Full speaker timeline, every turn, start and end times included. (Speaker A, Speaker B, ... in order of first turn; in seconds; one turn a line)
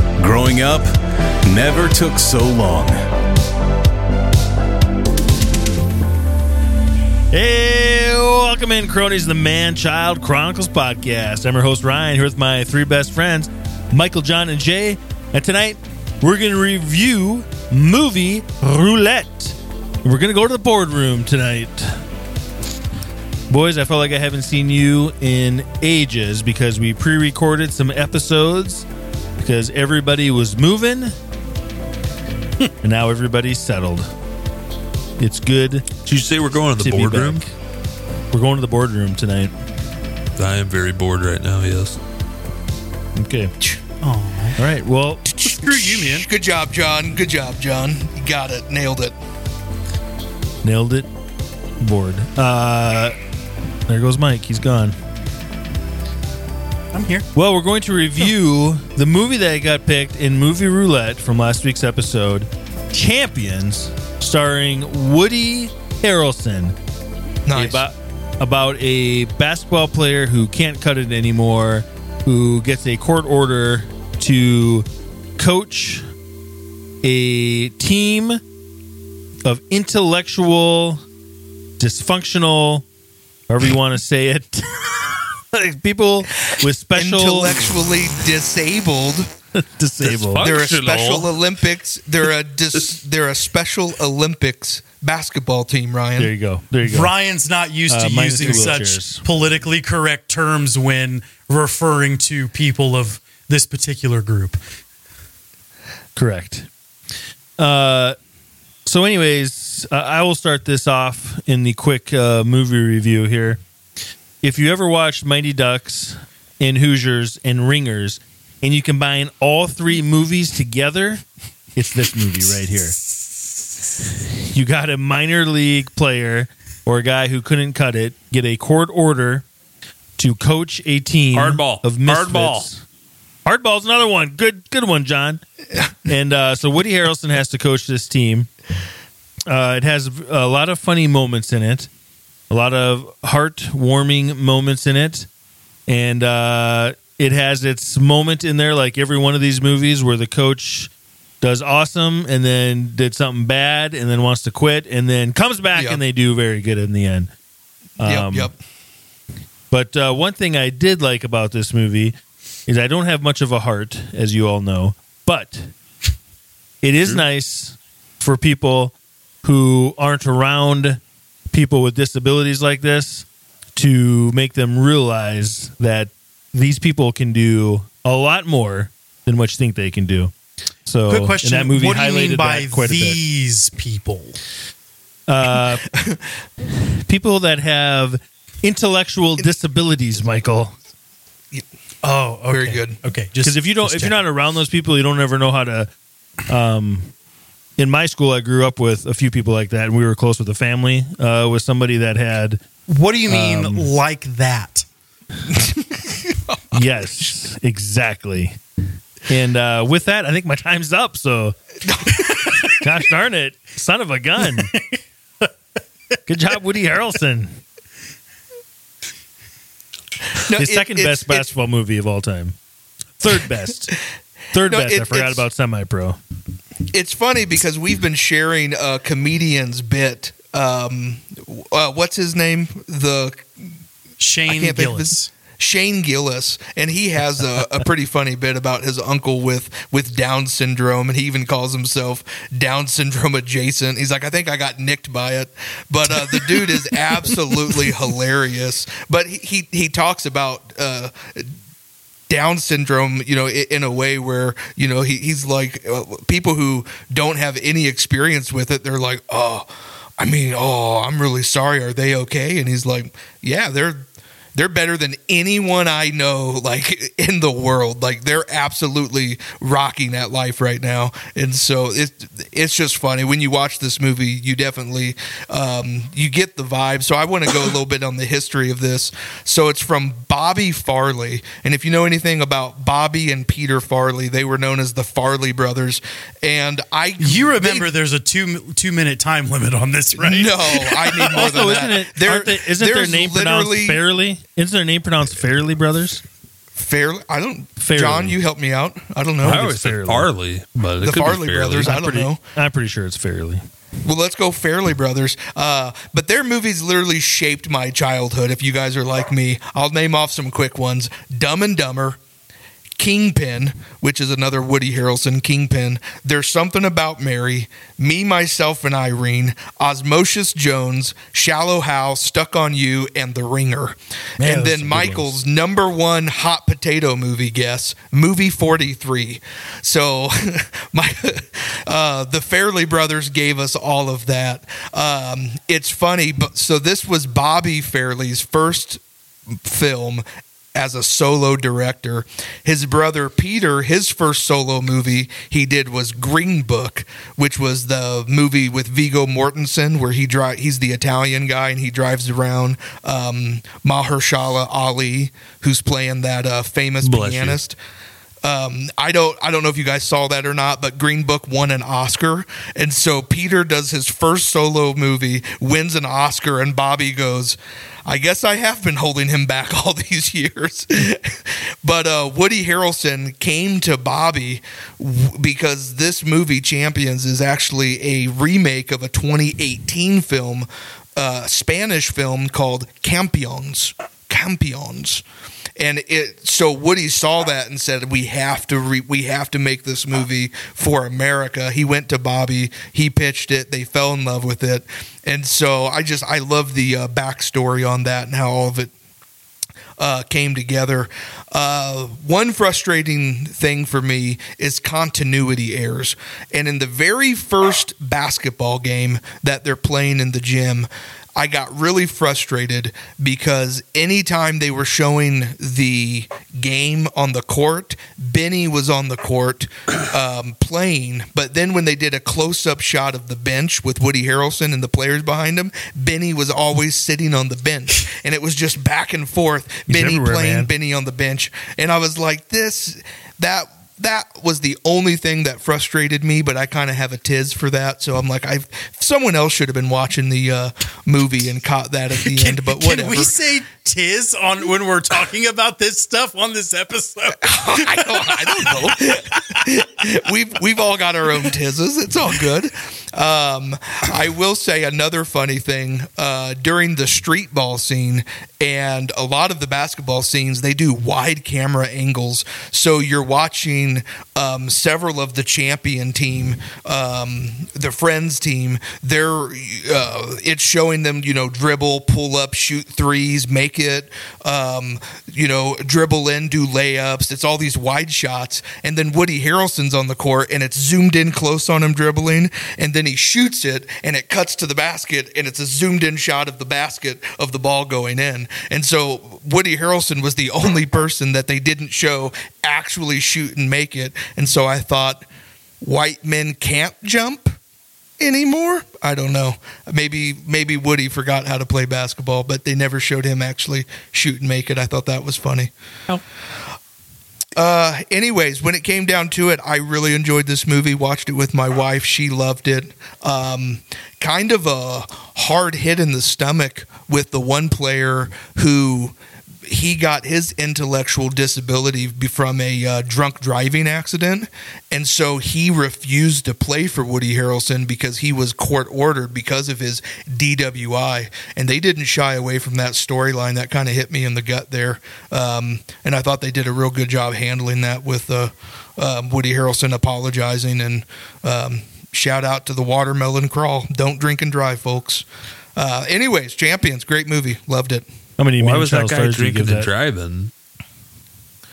Speaker A: 0.2-0.9
Speaker A: 1.5-3.0
Speaker B: 7.3-22.0
Speaker B: 23.5-28.9
Speaker B: 29.4-31.2
Speaker B: 32.8-34.1
Speaker B: 35.2-35.9
Speaker C: 36.1-37.4
Speaker B: 36.8-37.5
Speaker B: 38.3-39.5
Speaker C: 40.4-42.0
Speaker B: 43.2-43.5
Speaker D: 44.0-44.6
Speaker B: 44.6-45.2
Speaker E: 45.3-49.2
Speaker D: 45.4-46.3
Speaker B: 50.6-51.1
Speaker B: 51.8-53.2
Speaker B: 53.9-55.0
Speaker D: 56.9-57.3
Speaker B: 57.3-66.8
Speaker E: 67.5-67.8
Speaker B: 67.5-74.9
Speaker B: 75.4-76.0
Speaker B: 77.0-78.4
Speaker B: 79.4-81.0
Speaker B: 81.8-82.9
Speaker B: 83.5-85.0
Speaker B: 85.5-87.6
Speaker E: 86.9-89.3
Speaker B: 89.5-90.5
Speaker C: 90.0-91.4
Speaker E: 90.4-96.3
Speaker B: 96.2-97.1
Speaker D: 96.8-104.6
Speaker B: 97.9-99.2
Speaker E: 98.4-98.8
Speaker B: 106.2-106.7
Speaker B: 107.6-108.2
Speaker B: 108.9-113.6
Speaker B: 114.4-123.0
Speaker B: 124.5-129.5
Speaker B: 130.2-132.8
Speaker C: 131.3-132.7
Speaker B: 133.4-135.4
Speaker B: 136.1-138.5
Speaker B: 139.5-141.9
Speaker B: 142.5-145.3
Speaker B: 145.9-150.9
Speaker B: 151.4-157.3
Speaker E: 155.8-156.0
Speaker B: 158.0-158.5
Speaker E: 158.0-158.6
Speaker B: 159.7-165.7
Speaker B: 166.8-171.0
Speaker B: 171.5-180.3
Speaker B: 180.9-183.2
Speaker D: 181.1-184.4
Speaker B: 185.3-185.9
Speaker E: 185.9-186.3
Speaker B: 187.1-190.8
Speaker D: 192.0-194.2
Speaker E: 192.5-193.0
Speaker B: 193.4-195.9
Speaker B: 196.5-197.1
Speaker B: 197.8-202.6
Speaker D: 202.9-204.9
Speaker B: 203.3-203.9
Speaker E: 205.5-206.8
Speaker B: 206.7-208.6
Speaker B: 209.3-211.6
Speaker E: 211.8-212.6
Speaker B: 212.7-214.7
Speaker B: 216.3-217.6
Speaker E: 220.4-221.5
Speaker B: 220.5-222.6
Speaker B: 223.2-224.0
Speaker B: 224.5-226.2
Speaker E: 224.6-225.5
Speaker E: 226.9-233.7
Speaker D: 234.2-235.3
Speaker E: 234.5-251.5
Speaker E: 252.3-287.9
Speaker D: 287.2-291.4
Speaker E: 290.2-294.0
Speaker B: 291.3-296.2
Speaker E: 296.8-299.7
Speaker B: 297.8-298.4
Speaker B: 299.4-300.3
Speaker C: 299.4-301.9
Speaker E: 301.0-302.4
Speaker B: 301.8-303.6
Speaker E: 304.1-312.2
Speaker E: 313.0-357.8
Speaker B: 324.4-325.4
Speaker C: 357.0-357.6
Speaker E: 358.4-385.2
Speaker E: 385.8-398.9
Speaker E: 400.0-443.4
Speaker B: 429.9-430.7
Speaker D: 442.2-449.4
Speaker E: 447.4-495.3
Speaker E: 495.8-497.6
Speaker E: 498.2-506.2
Speaker E: 507.6-548.1
Speaker B: 548.4-549.9
Speaker C: 548.6-550.5